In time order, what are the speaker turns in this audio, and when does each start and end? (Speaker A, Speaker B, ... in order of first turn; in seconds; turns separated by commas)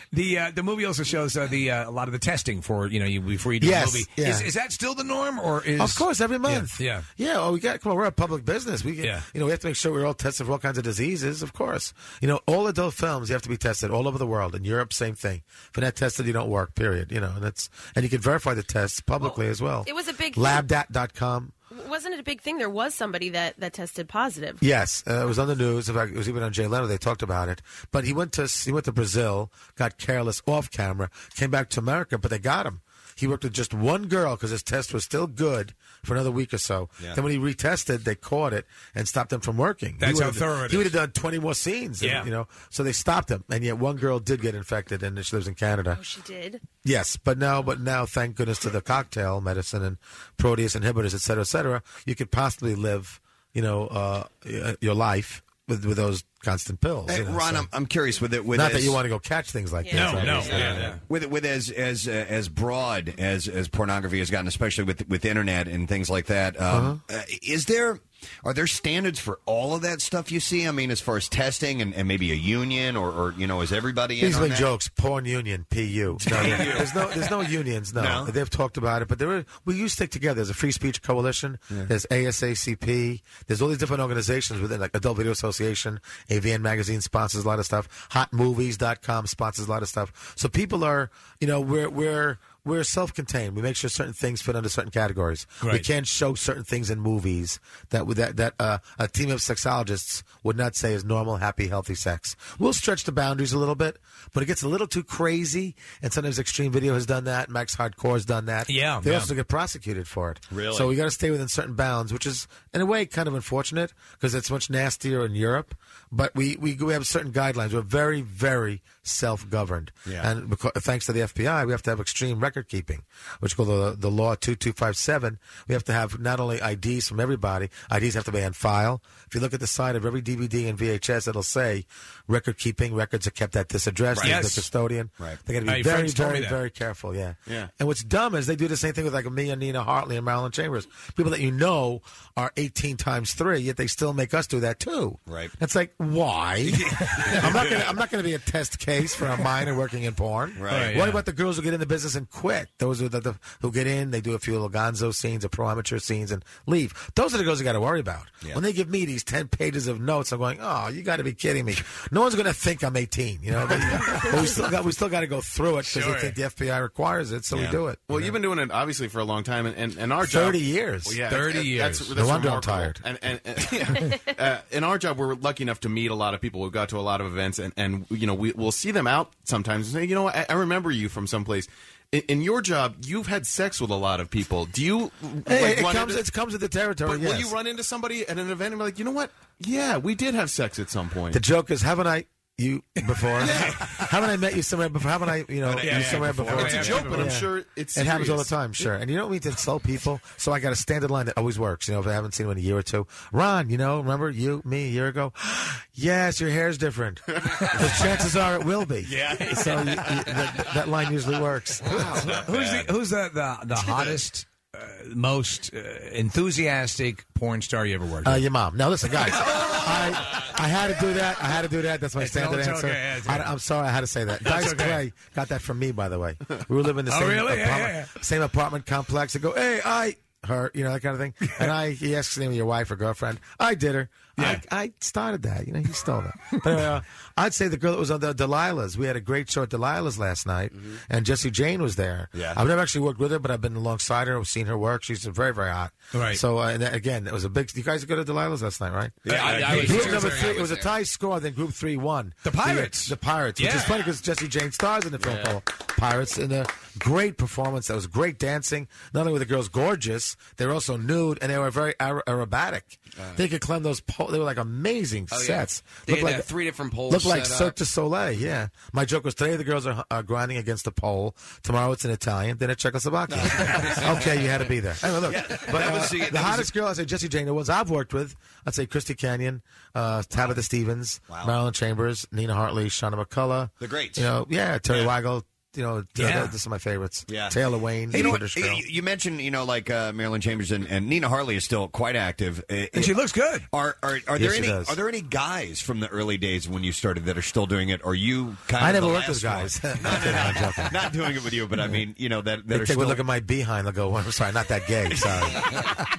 Speaker A: 0.1-7.1, Speaker B: 3.6-4.5, Speaker B: 5.8-21.5, Speaker C: 19.2-20.6, Speaker C: 21.7-24.6, Speaker B: 24.6-46.0, Speaker A: 40.0-40.9, Speaker A: 42.0-42.3, Speaker C: 45.9-46.6, Speaker B: 46.8-57.7, Speaker D: 57.1-59.0, Speaker B: 58.5-60.9, Speaker C: 59.9-60.3, Speaker A: 59.9-61.0, Speaker D: 60.2-74.7, Speaker B: 66.7-67.0, Speaker B: 74.2-168.4, Speaker D: 76.2-77.2, Speaker D: 78.0-78.3, Speaker A: 108.7-109.3, Speaker D: 110.5-110.9, Speaker D: 134.1-134.4, Speaker A: 134.2-134.7, Speaker A: 135.7-136.6, Speaker D: 145.3-145.5, Speaker D: 147.4-147.8, Speaker D: 150.6-151.0, Speaker A: 150.7-151.2, Speaker A: 165.8-166.3, Speaker D: 167.5-167.8, Speaker E: 168.1-186.2, Speaker B: 170.2-171.2, Speaker A: 171.3-172.1, Speaker B: 172.1-173.0, Speaker B: 185.5-187.6, Speaker E: 187.0-191.4, Speaker B: 191.3-212.4, Speaker A: 193.4-193.9, Speaker E: 193.4-193.9, Speaker E: 195.6-198.6, Speaker A: 195.7-197.4, Speaker A: 209.2-209.9, Speaker A: 212.2-218.4, Speaker B: 218.2-266.5, Speaker A: 222.2-223.5, Speaker A: 224.4-225.0, Speaker A: 227.1-228.2, Speaker A: 234.4-234.6, Speaker D: 242.3-242.6, Speaker A: 246.1-246.4, Speaker D: 249.2-250.1, Speaker A: 249.3-250.6, Speaker F: 249.8-250.9, Speaker A: 252.4-253.9, Speaker F: 265.3-267.8, Speaker B: 267.1-288.8, Speaker D: 273.3-274.2, Speaker D: 275.2-276.7, Speaker D: 281.3-281.5, Speaker D: 283.8-284.3, Speaker A: 286.2-286.6, Speaker D: 287.3-287.6, Speaker D: 288.1-293.1, Speaker A: 292.9-293.7, Speaker D: 293.7-303.2, Speaker B: 294.3-295.0, Speaker B: 298.8-301.0, Speaker B: 302.7-305.9